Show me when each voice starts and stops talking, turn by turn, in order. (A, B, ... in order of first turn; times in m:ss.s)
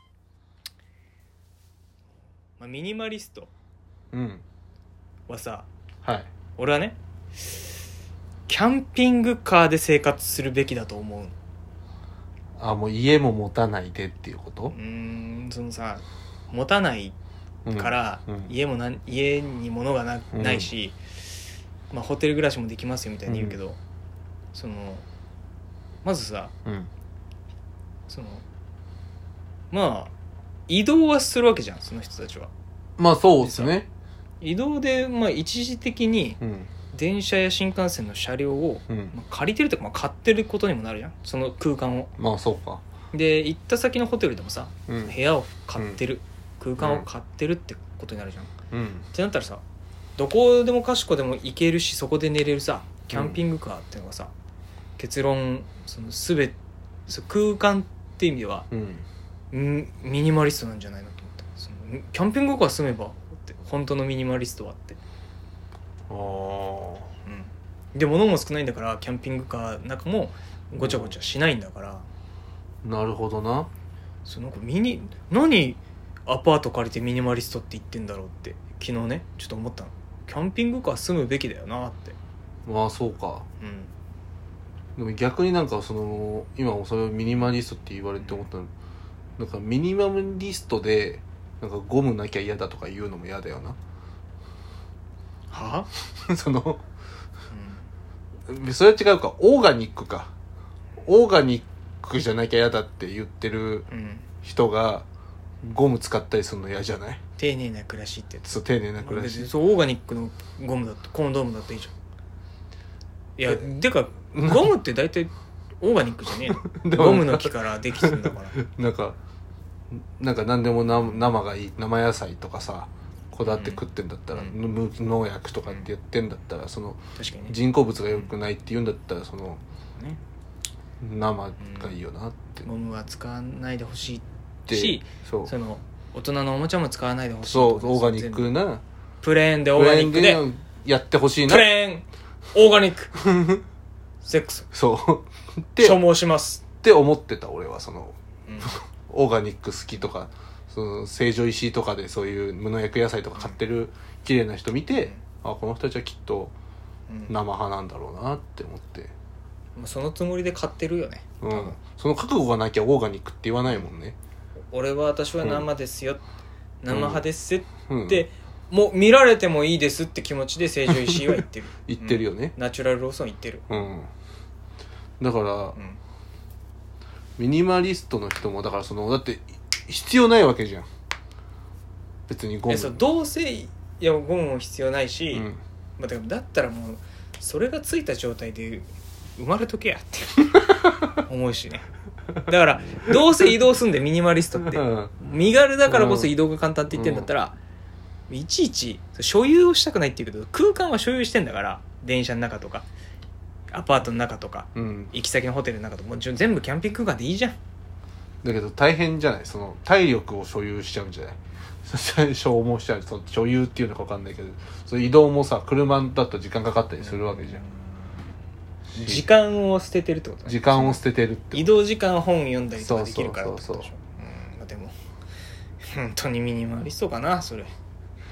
0:02.6-0:03.5 A
0:04.1-0:04.4 B
0:05.3-0:05.7 A
0:06.6-0:07.7 A
0:08.5-0:11.3 A
0:12.6-0:14.7 B
0:14.7-0:17.2 A
0:17.6-0:18.5 B
0:17.7-0:21.0 A
0:20.3-0:20.7 B
0:21.9-0:23.8 A
0:23.3-0:23.6 B
0:24.5-0:25.0 A
0:26.0-0:26.5 A
0:26.6-0:26.9 B
0:28.1-0:28.4 A
0:29.7-0:30.1 A
0:30.7-0:32.5 A
0:33.0-0:33.9 B
0:33.4-0:33.7 A
0:34.4-0:36.4 A
0:36.4-0:36.7 B
0:36.9-0:42.1 A
0:42.2-0:42.8 B
0:43.1-0:48.5 A
0:44.9-0:45.1 B
0:46.8-0:47.1 B
0:48.7-0:49.1 B
0:49.1-0:49.6 A
0:50.2-0:54.3 A
0:53.1-0:53.4 B
0:55.0-0:58.7 A
0:58.7-0:59.0 B
0:59.5-1:05.0 A
1:06.1-1:07.1 B
1:07.2-1:12.0 A
1:10.8-1:11.1 B
1:12.8-1:13.7 B
1:14.2-1:22.2 A
1:22.6-1:23.4 B
1:23.6-1:23.9 A
1:25.0-1:28.7 B
1:29.4-1:33.8 B
1:35.5-1:35.9 A
1:36.2-1:36.8 B
1:37.5-1:37.9 A
1:38.5-1:40.3 B
1:41.0-1:43.9 B
1:43.9-1:44.3 A
1:44.4-1:45.1 B
1:45.6-1:47.2 B
1:47.4-1:48.5 A
1:48.4-1:49.5 B
1:49.0-1:51.9 A
1:53.4-1:58.6 A
1:54.3-1:54.7 B
1:56.6-1:59.2 B
2:00.2-2:09.6 B
2:01.0-2:01.3 A
2:03.4-2:03.8 A
2:07.2-2:07.6 A
2:11.0-2:12.7 B
2:11.6-2:12.0 A
2:12.6-2:18.5 A
2:14.7-2:15.5 B
2:17.4-2:18.8 B
2:19.2-2:20.4 A
2:19.7-2:21.7 B
2:21.4-2:23.2 A
2:23.2-2:23.6 B
2:24.2-2:24.7 A
2:24.7-2:26.0 B
2:25.8-2:26.6 A
2:26.7-2:36.5 B
2:28.5-2:28.7 A
2:37.1-2:37.3 A
2:37.3-2:39.1 B
2:39.8-2:41.8 A
2:41.4-2:44.2 B
2:44.7-2:46.2 A
2:45.4-2:45.7 B
2:46.8-2:53.9 A
2:46.9-2:47.2 B
2:47.8-2:48.3 B
2:51.9-2:52.5 B
2:53.7-2:54.1 B
2:55.2-2:55.8 B
2:57.4-3:00.9 B
3:02.3-3:03.0 B
3:02.7-3:05.5 A
3:05.3-3:05.6 B
3:06.0-3:10.5 A
3:10.5-3:11.1 B
3:11.2-3:11.8 A
3:12.5-3:17.6 A
3:14.6-3:15.1 B
3:15.9-3:16.3 B
3:16.9-3:17.3 B
3:18.3-3:22.9 A
3:23.7-3:27.6 A
3:24.7-3:25.1 B
3:28.4-3:37.6 B
3:37.0-3:38.0 A
3:38.9-3:39.2 B
3:39.0-3:41.0 A
3:40.4-3:41.7 B
3:41.5-3:44.9 A
3:42.8-3:43.9 B
3:45.9-3:47.7 A